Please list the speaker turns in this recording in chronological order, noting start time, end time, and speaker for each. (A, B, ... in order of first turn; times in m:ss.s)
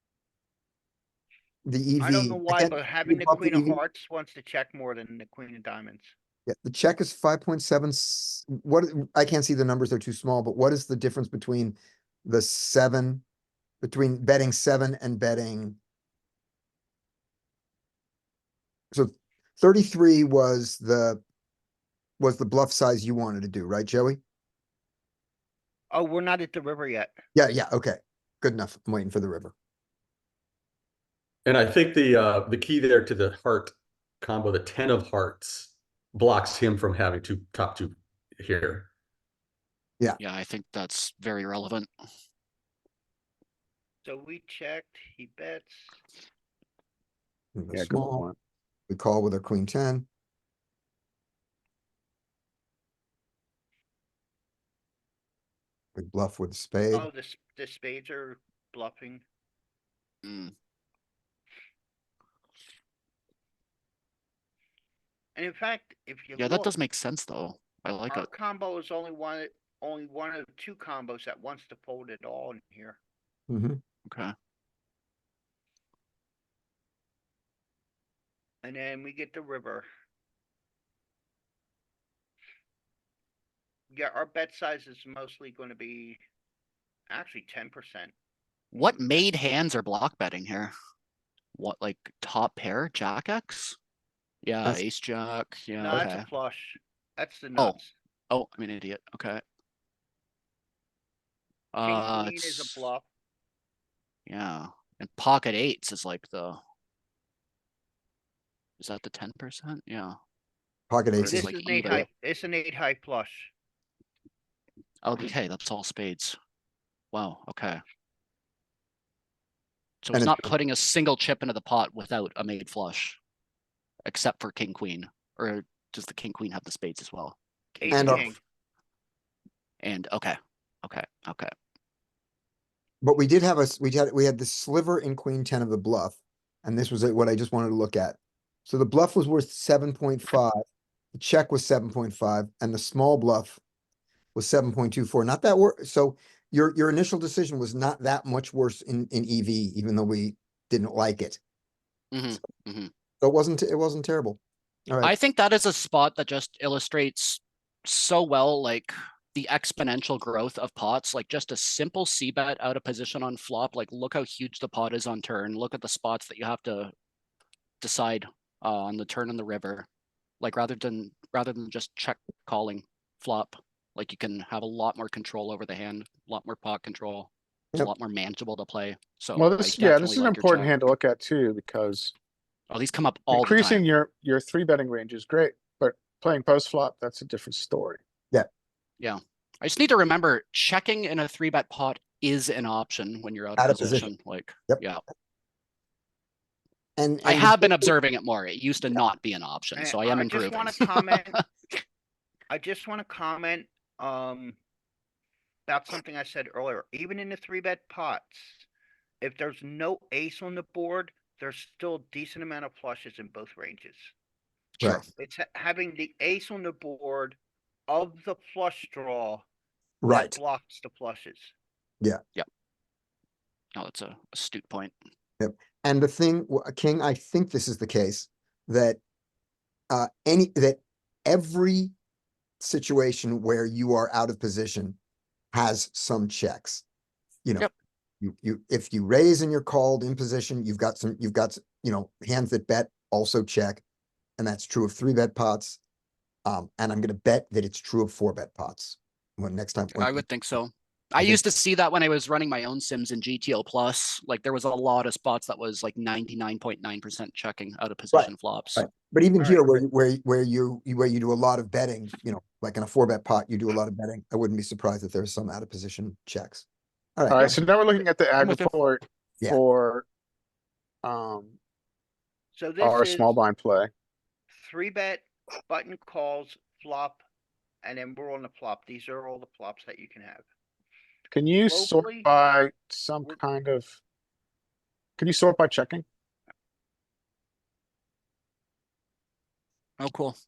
0:01.6-0:03.8 A
0:02.0-0:06.1 B
0:06.5-0:13.2 A
0:13.8-0:15.8 A
0:18.9-0:21.2 A
0:22.2-0:24.2 A
0:25.9-0:27.1 B
0:27.4-0:29.5 A
0:31.4-0:38.9 C
0:40.2-0:41.9 D
0:44.0-0:45.9 B
0:47.6-0:48.3 A
0:47.7-0:48.4 E
0:48.9-0:50.1 A
0:56.0-0:57.1 A
0:56.9-0:59.2 B
1:00.2-1:00.5 D
1:05.4-1:06.7 B
1:06.4-1:08.3 D
1:08.1-1:13.0 B
1:13.5-1:13.8 A
1:14.1-1:14.3 D
1:18.6-1:19.9 B
1:23.9-1:26.2 B
1:27.1-1:28.1 B
1:28.7-1:30.7 D
1:31.6-1:33.8 D
1:34.4-1:36.3 D
1:35.8-1:37.9 B
1:38.3-1:39.4 D
1:41.7-1:42.8 D
1:41.8-1:43.1 B
1:44.3-1:46.6 D
1:48.8-1:50.2 D
1:50.9-1:52.0 A
1:51.2-1:52.1 D
1:51.3-1:53.5 B
1:55.0-1:56.4 D
1:57.1-1:57.8 D
2:00.0-2:03.2 D
2:00.1-2:00.5 A
2:04.0-2:08.4 D
2:07.8-2:08.4 B
2:07.9-2:08.3 A
2:09.8-2:11.5 D
2:13.0-2:20.6 A
2:21.2-2:23.6 A
2:24.4-2:31.4 A
2:32.1-2:32.9 D
2:33.2-2:35.1 A
2:35.0-2:46.9 D
2:47.8-2:49.9 D
2:50.4-3:00.9 D
2:59.4-3:02.1 E
3:02.7-3:03.9 D
3:03.3-3:08.0 E
3:09.0-3:15.0 D
3:13.6-3:14.1 A
3:17.0-3:17.9 A
3:17.2-3:21.4 D
3:19.8-3:21.4 B
3:22.5-3:24.6 B
3:25.7-3:28.7 B
3:29.2-3:34.1 B
3:34.8-3:35.0 D
3:35.2-3:37.4 B
3:37.9-3:39.4 B
3:40.0-3:40.4 A
3:40.1-3:41.5 B
3:43.8-3:44.9 D
3:45.4-3:49.0 A
3:49.9-3:51.9 A
3:52.6-3:55.0 A
3:55.5-3:56.8 A
3:58.2-4:03.8 A
4:04.4-4:05.8 A
4:06.4-4:10.2 A
4:10.0-4:18.9 D
4:18.1-4:26.6 A
4:19.4-4:19.8 B
4:27.2-4:27.6 A
4:27.3-4:30.1 E
4:31.0-4:31.6 E
4:32.5-4:33.4 B
4:32.8-4:33.9 E
4:34.5-4:37.2 B
4:37.8-4:40.4 B
4:41.3-4:44.0 E
4:41.7-4:42.3 B
4:45.2-4:46.0 E
4:50.0-4:50.4 D